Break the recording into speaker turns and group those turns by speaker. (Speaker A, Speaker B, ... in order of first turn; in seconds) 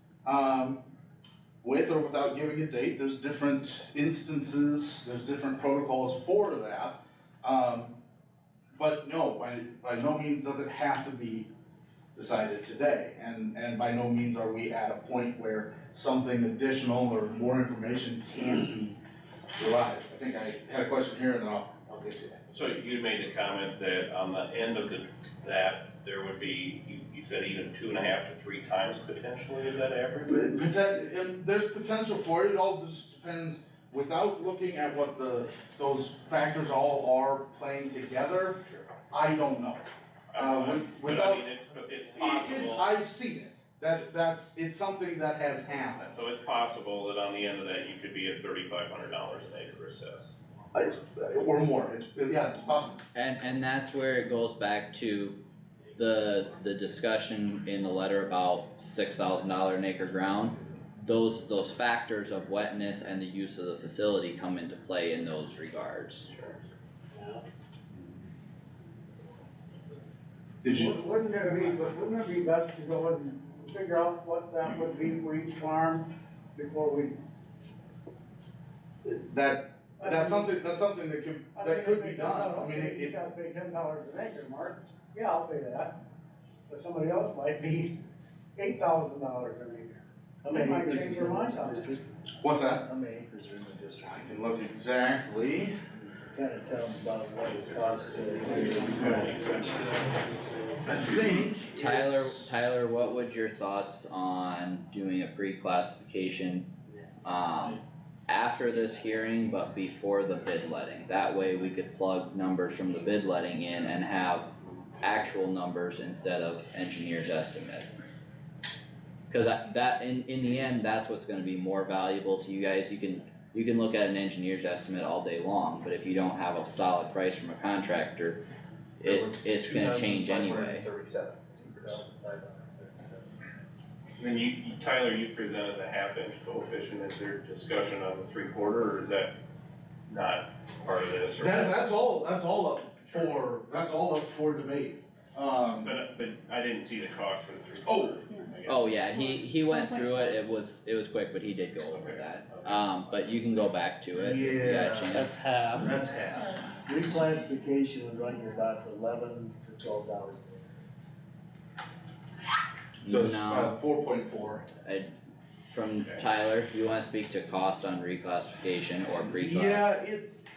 Speaker A: 0.2-0.8, 1.6-8.0, 8.8-11.5, 12.2-19.0, 19.6-22.4, 30.3-41.5, 42.2-46.2, 50.7-53.0, 70.6-71.0, 79.0-83.2, 92.4-92.9, 94.0-95.8, 99.0-99.3, 100.8-102.5, 141.4-145.9, 147.8-148.2, 154.2-156.7, 163.0-164.7, 169.3-170.3
Speaker B: 22.5-30.4, 40.3-42.9, 46.1-50.3, 66.3-66.6, 97.5-100.2, 129.1-131.9, 134.2-139.3, 140.1-141.7, 145.8-149.2, 151.9-153.2
Speaker C: 53.1-55.4, 56.0-66.3, 101.7-106.7, 107.2-118.2, 119.3-128.4, 129.0-130.9, 148.7-155.5, 163.0-163.8, 164.8-165.1, 165.7-170.0
Speaker D: 70.8-77.2, 80.0-80.5, 81.5-85.9, 86.7-88.0, 88.6-91.8
Speaker E: 90.4-92.1, 92.8-94.4, 96.2-100.2, 131.7-133.4, 155.2-155.9, 156.9-160.7